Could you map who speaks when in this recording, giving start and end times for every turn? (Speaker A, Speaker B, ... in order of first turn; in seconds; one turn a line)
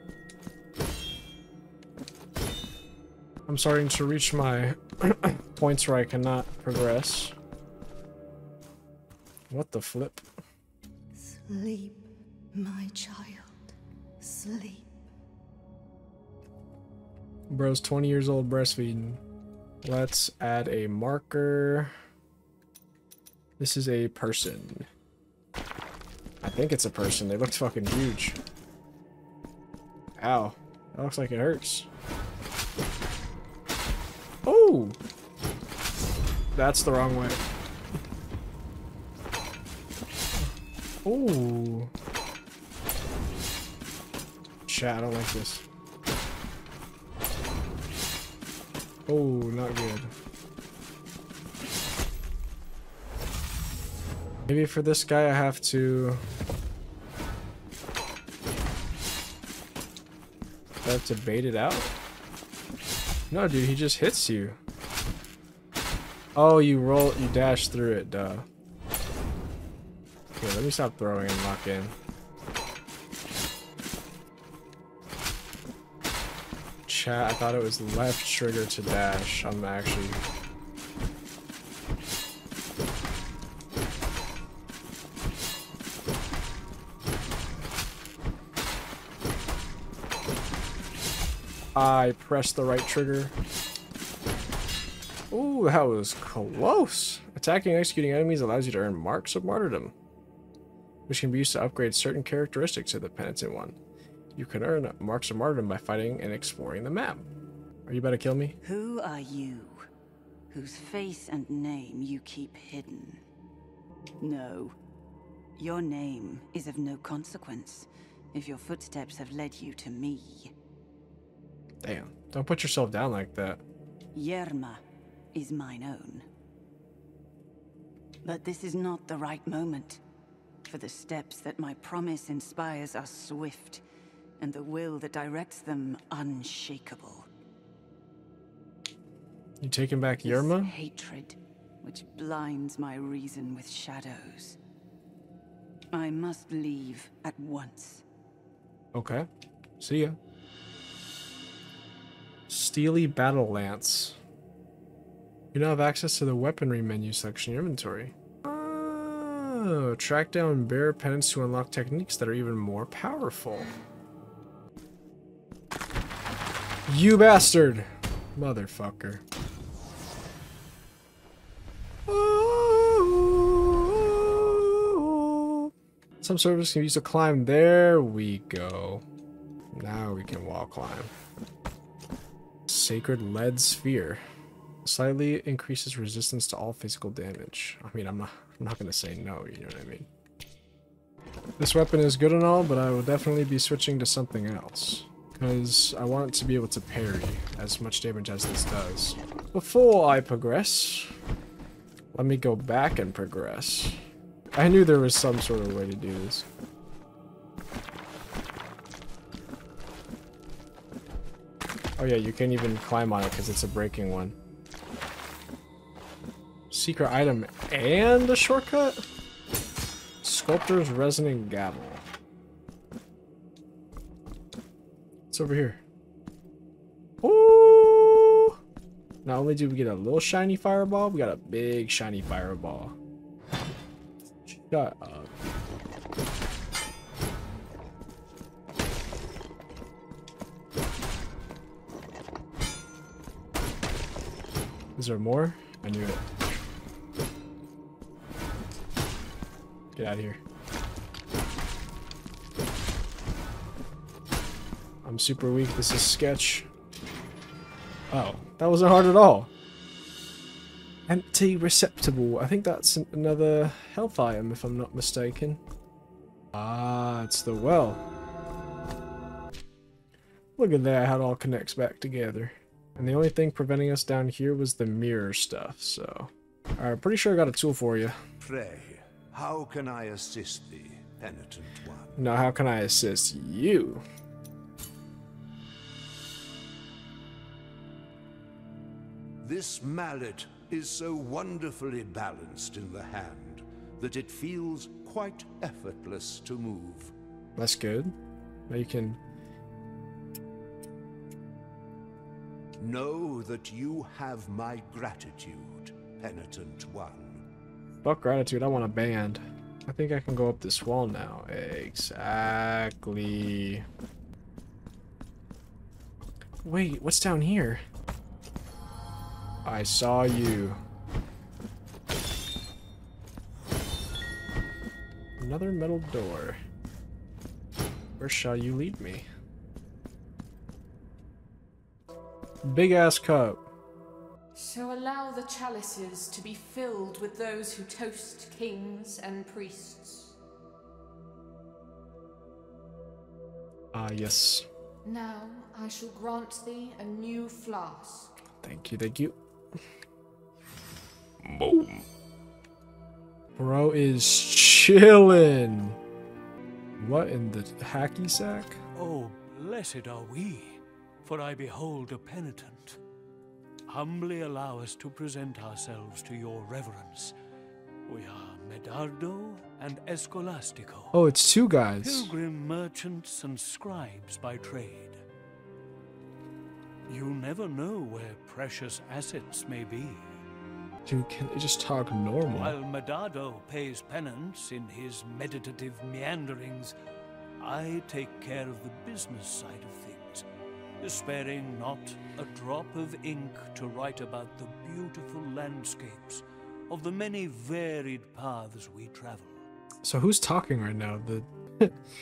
Speaker A: 3.5-7.3
Speaker A: 9.5-10.2
Speaker B: 11.2-13.7
Speaker B: 14.2-14.9
Speaker A: 17.5-19.2
Speaker A: 19.8-21.9
Speaker A: 23.6-24.9
Speaker A: 26.4-28.4
Speaker A: 30.2-31.9
Speaker A: 34.5-35.0
Speaker A: 36.5-37.4
Speaker A: 41.0-41.9
Speaker A: 44.7-45.6
Speaker A: 49.1-50.1
Speaker A: 54.5-56.2
Speaker A: 60.8-61.9
Speaker A: 63.3-64.6
Speaker A: 66.3-68.4
Speaker A: 70.4-72.0
Speaker A: 76.9-80.2
Speaker A: 91.7-93.3
Speaker A: 95.3-99.9
Speaker A: 101.1-103.8
Speaker A: 104.3-107.2
Speaker A: 107.9-108.5
Speaker B: 108.6-109.9
Speaker B: 110.5-113.2
Speaker B: 114.2-114.7
Speaker B: 115.6-120.5
Speaker A: 121.8-123.6
Speaker B: 124.1-126.3
Speaker B: 128.2-130.0
Speaker B: 130.7-133.8
Speaker B: 134.4-137.3
Speaker A: 139.6-140.7
Speaker B: 140.2-144.6
Speaker B: 145.9-148.0
Speaker A: 148.9-149.3
Speaker A: 149.8-150.2
Speaker A: 152.5-154.2
Speaker A: 155.5-163.7
Speaker A: 166.9-169.2
Speaker A: 172.1-179.0
Speaker A: 179.7-181.1
Speaker A: 182.7-184.2
Speaker A: 184.8-190.1
Speaker A: 191.6-201.1
Speaker A: 202.1-204.0
Speaker A: 204.6-206.4
Speaker A: 212.0-214.3
Speaker A: 216.7-219.0
Speaker A: 220.2-222.0
Speaker A: 225.3-225.8
Speaker A: 227.2-228.6
Speaker A: 229.2-232.9
Speaker A: 234.4-235.3
Speaker A: 244.9-246.2
Speaker A: 249.9-250.4
Speaker A: 255.0-256.7
Speaker A: 258.1-259.5
Speaker A: 261.1-265.6
Speaker A: 266.5-268.0
Speaker A: 270.6-278.2
Speaker C: 278.4-282.2
Speaker A: 282.2-284.0
Speaker C: 289.4-297.1
Speaker A: 297.6-298.1
Speaker A: 298.7-299.2
Speaker C: 302.8-307.4
Speaker A: 308.0-313.8
Speaker A: 316.6-317.8
Speaker A: 319.6-320.8
Speaker A: 325.4-326.6
Speaker A: 328.2-329.2
Speaker A: 332.6-333.6
Speaker D: 334.5-340.3
Speaker A: 343.9-344.6
Speaker D: 345.0-348.3
Speaker A: 348.6-349.4
Speaker A: 351.4-352.0
Speaker A: 353.6-356.0
Speaker A: 357.0-358.8
Speaker E: 358.9-363.0
Speaker E: 363.9-367.3
Speaker E: 368.1-371.1
Speaker A: 371.1-372.3
Speaker E: 372.0-375.2
Speaker E: 377.1-380.3
Speaker A: 381.1-382.8
Speaker E: 382.5-386.9
Speaker E: 387.6-390.4
Speaker E: 391.0-399.6
Speaker A: 400.0-401.9